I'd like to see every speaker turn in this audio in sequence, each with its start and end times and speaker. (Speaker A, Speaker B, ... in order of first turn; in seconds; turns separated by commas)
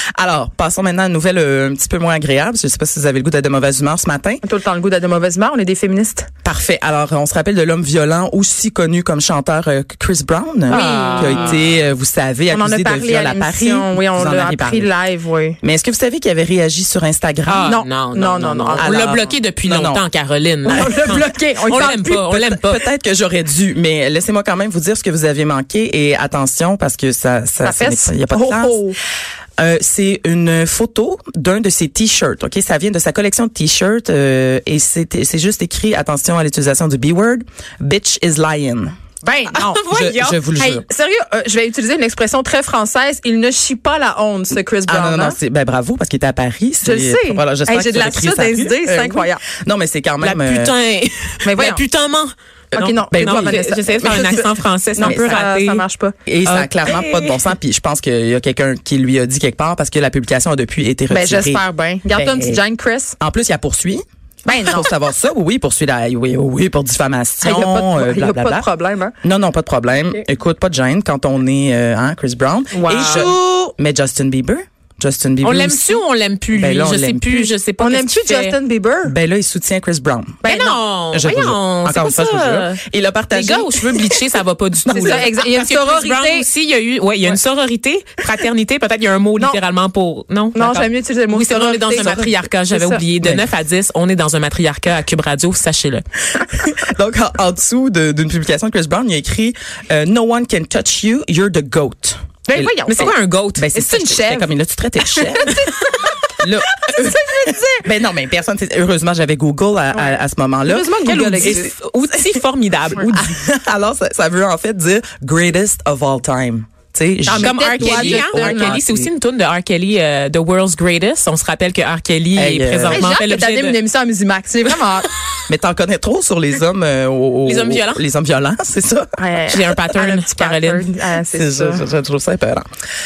Speaker A: 0.1-4.4, Speaker B: 4.4-6.3, Speaker A: 6.4-14.9, Speaker C: 10.7-11.6, Speaker B: 10.7-11.6, Speaker B: 12.5-15.6, Speaker A: 15.6-17.7, Speaker C: 17.5-22.9, Speaker B: 17.6-19.0, Speaker A: 18.8-20.0, Speaker B: 20.6-22.2, Speaker A: 20.7-21.3, Speaker A: 22.1-28.8, Speaker B: 27.6-29.0, Speaker A: 29.6-38.9, Speaker B: 39.2-39.8, Speaker C: 39.5-40.4, Speaker A: 39.9-40.9, Speaker B: 40.6-45.4, Speaker A: 44.9-50.7, Speaker B: 46.8-49.5, Speaker C: 50.2-55.9, Speaker B: 51.5-51.8, Speaker B: 52.7-56.1, Speaker A: 52.8-54.4, Speaker A: 55.0-55.5, Speaker A: 56.3-62.6, Speaker C: 56.5-57.4, Speaker B: 61.1-63.1, Speaker A: 63.2-64.0, Speaker B: 64.5-64.9, Speaker A: 64.7-68.7, Speaker B: 67.4-69.1, Speaker A: 69.2-77.5, Speaker B: 72.7-73.5, Speaker C: 72.9-73.7, Speaker C: 75.4-78.6, Speaker B: 77.8-79.2, Speaker A: 79.0-84.2, Speaker B: 80.4-80.8, Speaker C: 80.5-96.0, Speaker A: 84.8-85.3, Speaker B: 84.9-86.5, Speaker B: 90.5-93.0, Speaker A: 91.9-92.3, Speaker A: 96.4-105.6, Speaker B: 102.5-103.1, Speaker C: 102.5-104.3, Speaker B: 103.9-104.5, Speaker B: 105.1-106.3, Speaker A: 106.4-111.7, Speaker B: 106.8-107.9, Speaker B: 109.9-111.7, Speaker C: 111.0-113.2, Speaker A: 113.1-119.1, Speaker B: 117.2-118.8, Speaker C: 117.4-123.8, Speaker A: 122.3-123.0, Speaker B: 122.9-125.1, Speaker A: 125.5-129.1, Speaker C: 127.5-128.0, Speaker B: 129.2-131.9, Speaker C: 129.5-130.9, Speaker A: 131.3-132.7